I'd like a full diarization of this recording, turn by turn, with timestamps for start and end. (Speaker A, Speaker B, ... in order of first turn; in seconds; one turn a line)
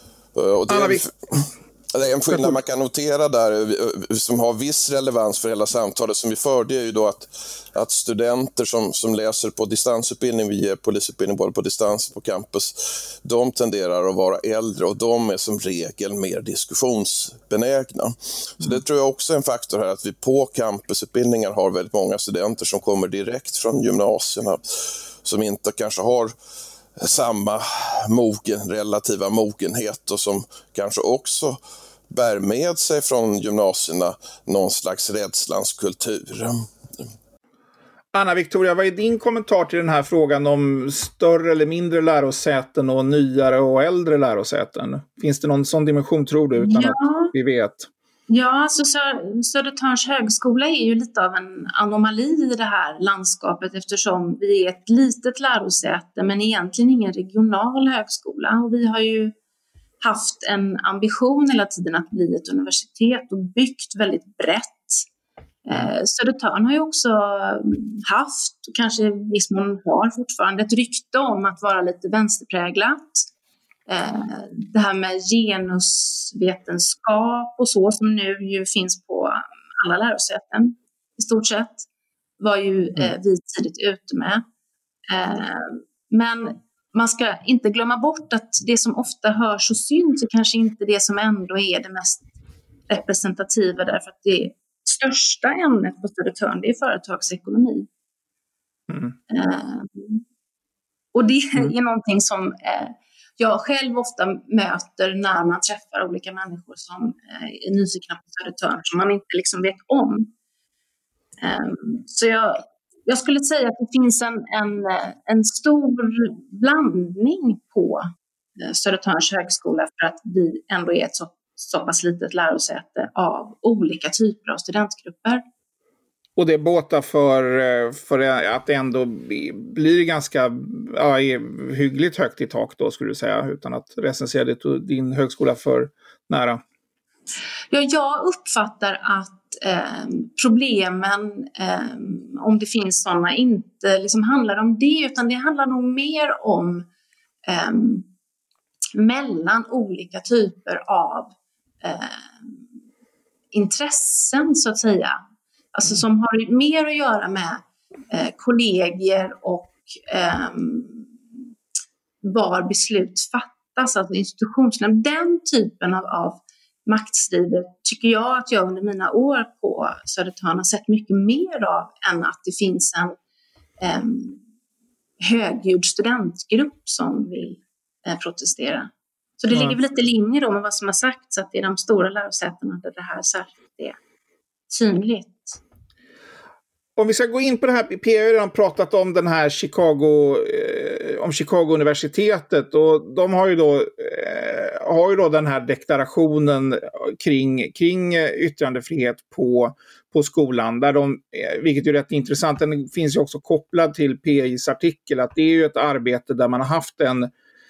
Speaker A: 0.3-26.3
Speaker B: 0.7-1.1
Speaker A: 27.0-31.6
Speaker A: 32.1-36.6
Speaker B: 38.1-47.9
Speaker C: 46.6-47.3
Speaker C: 48.3-59.3
Speaker C: 60.0-65.0
Speaker C: 65.7-73.2
Speaker C: 73.9-81.9
Speaker C: 82.4-84.4
Speaker C: 85.1-92.3
Speaker C: 92.9-97.9
Speaker C: 99.3-100.2
Speaker C: 101.1-110.3
Speaker C: 111.4-118.1
Speaker C: 118.6-125.4
Speaker B: 126.4-136.6
Speaker C: 137.7-146.9
Speaker C: 147.5-148.1
Speaker C: 148.9-152.6
Speaker C: 153.5-155.2
Speaker C: 155.7-161.1
Speaker C: 162.2-173.2
Speaker C: 173.8-174.4
Speaker C: 175.2-184.0
Speaker C: 184.7-185.6
Speaker B: 187.0-207.3